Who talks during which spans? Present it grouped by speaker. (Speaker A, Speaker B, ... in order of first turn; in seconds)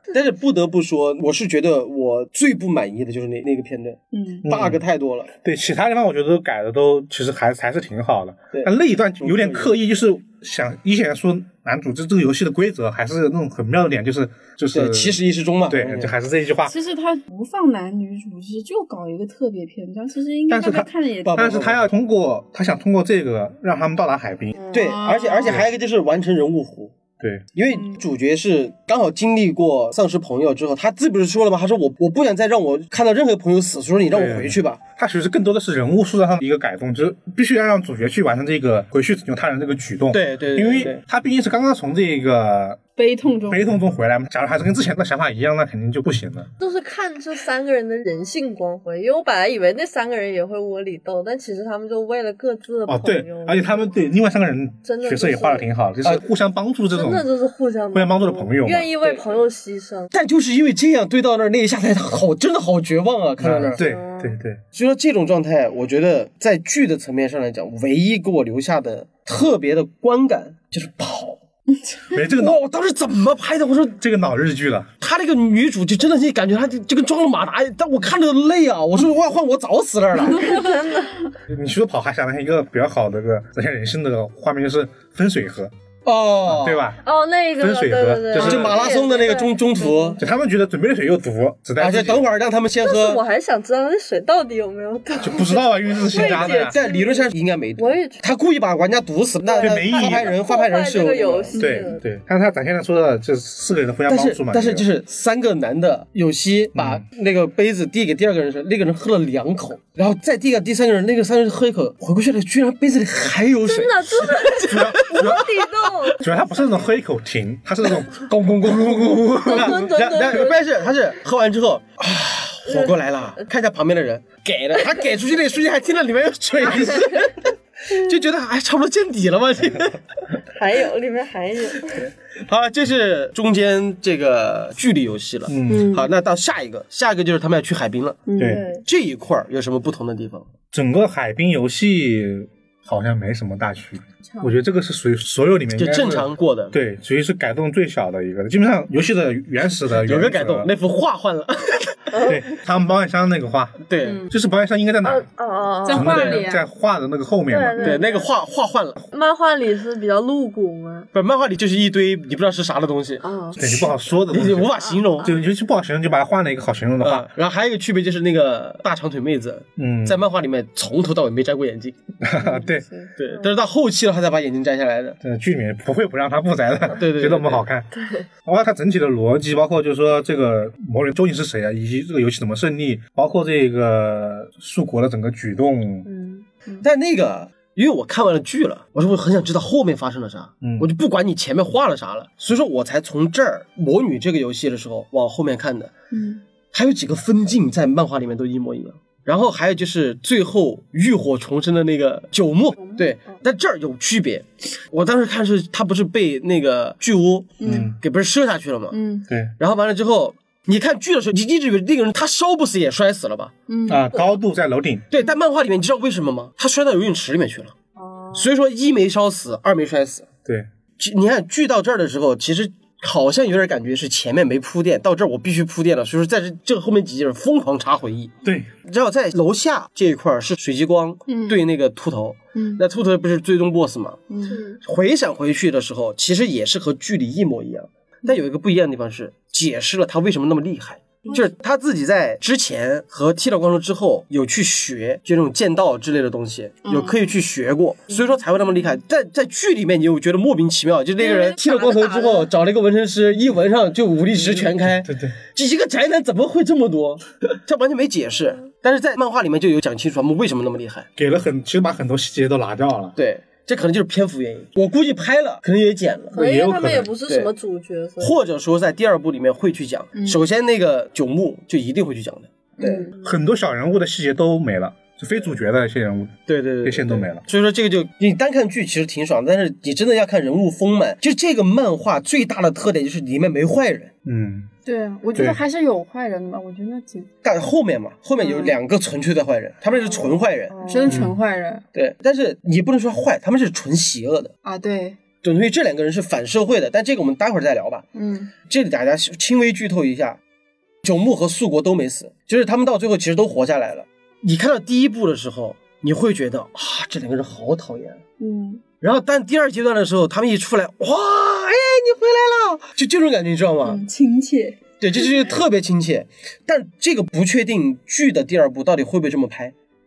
Speaker A: 0.1-5.3, 8.5-9.7, 14.7-16.1, 21.2-21.9, 24.7-26.9, 27.5-34.8, 40.1-41.0, 59.0-59.5, 60.1-63.8, 64.7-71.4, 72.4-74.0, 75.0-80.6, 86.1-86.8, 88.3-90.2, 91.8-93.2, 96.2-101.6, 104.1-115.7, 117.9-130.0, 132.4-138.2, 138.8-140.5, 145.7-146.8, 149.9-152.3, 153.9-154.2, 157.8-159.0, 161.1-165.3, 167.0-172.0, 173.2-175.2, 176.9-177.7, 186.8-195.9, 196.7-209.0, 209.6-213.5, 215.1-217.8, 218.3-220.3, 221.0-228.3, 228.8-234.2, 234.8-261.1, 263.2-266.4, 268.2-273.1, 276.5-284.1, 287.4-290.8, 291.9-294.5, 295.4-298.1, 298.7-300.4, 301.0-308.2, 309.0-314.0, 315.0-319.7
Speaker B: 4.1-4.5, 16.6-21.7, 24.7-25.6, 27.7-28.0, 43.0-43.6, 101.5-101.9, 135.7-136.1, 138.3-138.7, 144.3-144.6, 155.8-156.7, 172.4-173.1, 196.1-196.4, 207.6-207.9, 208.9-209.3, 213.7-214.3, 231.3-231.7, 232.6-232.8, 234.3-234.7, 246.8-247.2, 270.1-270.4, 272.8-273.1, 284.9-287.3, 288.4-288.7, 290.9-291.8, 294.6-295.2, 298.1-298.5, 308.4-308.8, 313.8-314.8
Speaker C: 4.4-4.8, 5.4-16.8, 20.5-24.6, 27.2-27.4, 34.1-42.8, 43.5-46.5, 52.9-57.2, 57.9-58.9, 63.4-64.6, 72.1-72.6, 74.0-74.9, 81.5-85.7, 86.5-87.0, 87.6-88.8, 90.2-92.2, 95.2-96.8, 99.6-100.3, 101.6-104.9, 106.8-107.0, 114.7-115.5, 116.2-119.9, 135.5-136.0, 138.4-138.6, 140.7-150.7, 152.3-155.2, 155.9-157.9, 163.6-167.3, 169.8-170.2, 172.2-172.9, 175.2-177.9, 178.4-186.1, 190.6-190.9, 207.7-208.0, 213.9-215.1, 228.4-228.7, 254.3-255.4, 261.2-263.1, 266.3-267.1, 273.2-277.4, 284.2-284.7, 285.4-285.6, 291.1-291.4
Speaker D: 24.6-25.0, 46.6-53.9, 54.9-55.7, 56.9-60.1, 63.7-64.4, 80.3-81.2, 87.0-90.2, 92.8-98.2, 99.4-102.0, 113.7-116.9, 119.4-120.6, 122.7-123.0, 126.7-127.3, 130.5-132.1, 138.4-138.8, 152.1-152.4, 155.0-156.4, 157.5-158.3, 159.1-161.1, 163.2-163.7, 164.8-165.3, 177.9-178.3, 186.1-186.5, 202.8-203.1, 218.0-218.5, 234.5-234.8, 251.2-252.5, 266.3-268.4, 272.9-273.4, 290.7-291.3